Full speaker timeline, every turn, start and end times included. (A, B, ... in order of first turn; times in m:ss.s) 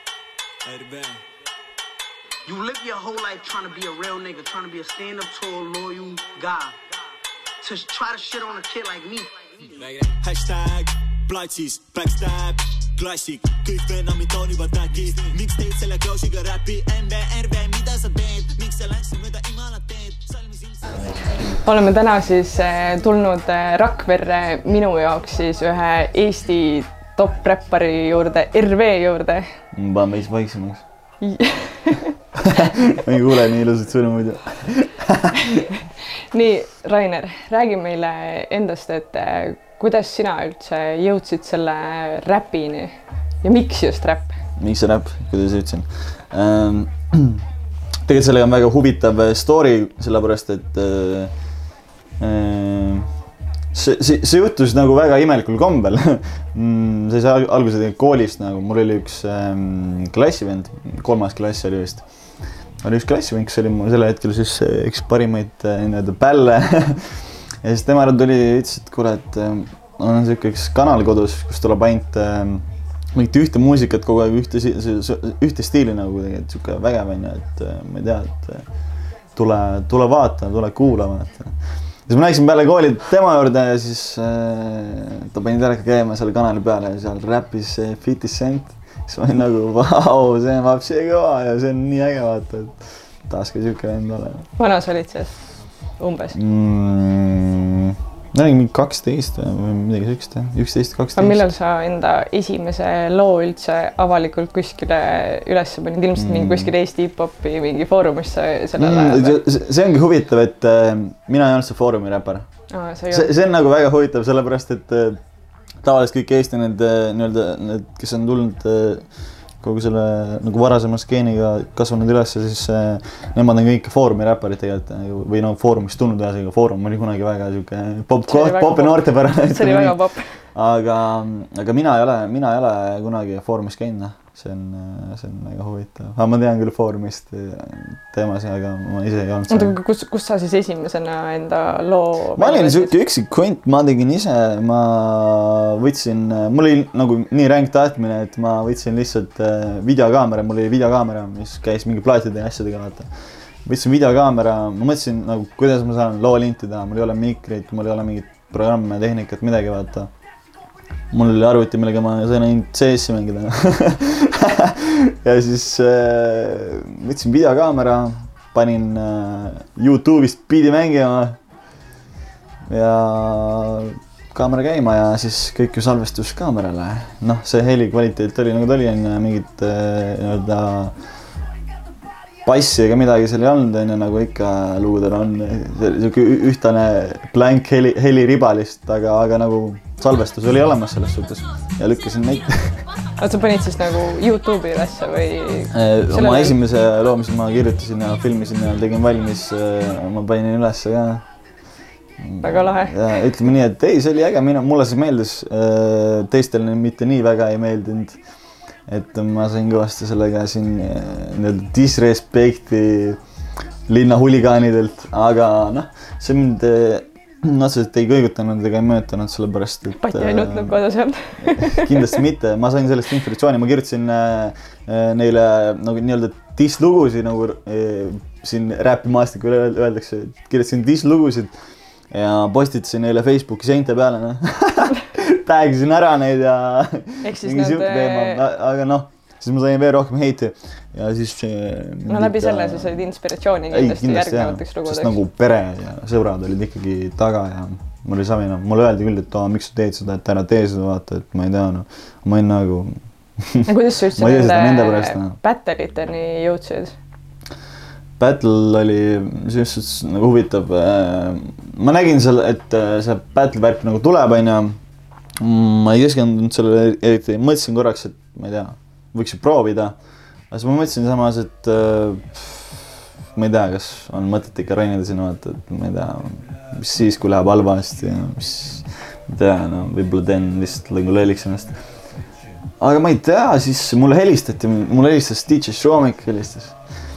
0:00.6-0:01.2 A
0:02.4-0:06.8 B
0:07.6-0:09.8 B
0:09.8-0:17.1 A
0:17.6-0:20.0 A
0:21.4-0:29.4 C
0:29.7-0:30.8 D
0:31.2-0:32.2 C
0:32.4-0:35.6 D
0:36.3-0:44.3 C
0:44.6-0:47.4 D
0:48.0-0:51.3 D
0:52.2-0:53.1 D
0:53.7-1:02.0 D
1:02.8-1:18.6 D
1:19.4-1:21.5 D
1:22.1-1:34.4 D
1:34.6-1:36.4 C
1:36.3-1:41.4 D
1:41.2-1:49.4 C
1:46.2-1:46.7 D
1:48.8-1:52.5 D
1:52.7-1:53.3 C
1:53.1-1:55.2 D
1:55.8-1:59.1 D
1:59.6-2:19.8 D
2:08.3-2:10.4 C
2:19.5-2:22.9 C
2:22.4-2:33.1 D
2:33.6-2:40.1 D
2:41.1-2:51.4 D
2:52.7-3:01.0 D
3:02.4-3:12.9 D
3:13.2-3:16.6 C
3:15.7-3:21.2 D
3:22.2-3:28.2 D
3:22.4-3:23.1 C
3:28.9-3:33.2 D
3:33.9-3:40.8 D
3:40.0-3:42.2 C
3:41.4-3:51.5 D
3:52.1-4:03.1 D
3:57.2-3:58.4 C
4:02.1-4:05.1 C
4:03.7-4:15.3 D
4:13.6-4:16.9 C
4:18.2-4:24.8 D
4:25.4-4:29.9 D
4:30.5-4:41.8 D
4:42.8-4:46.8 D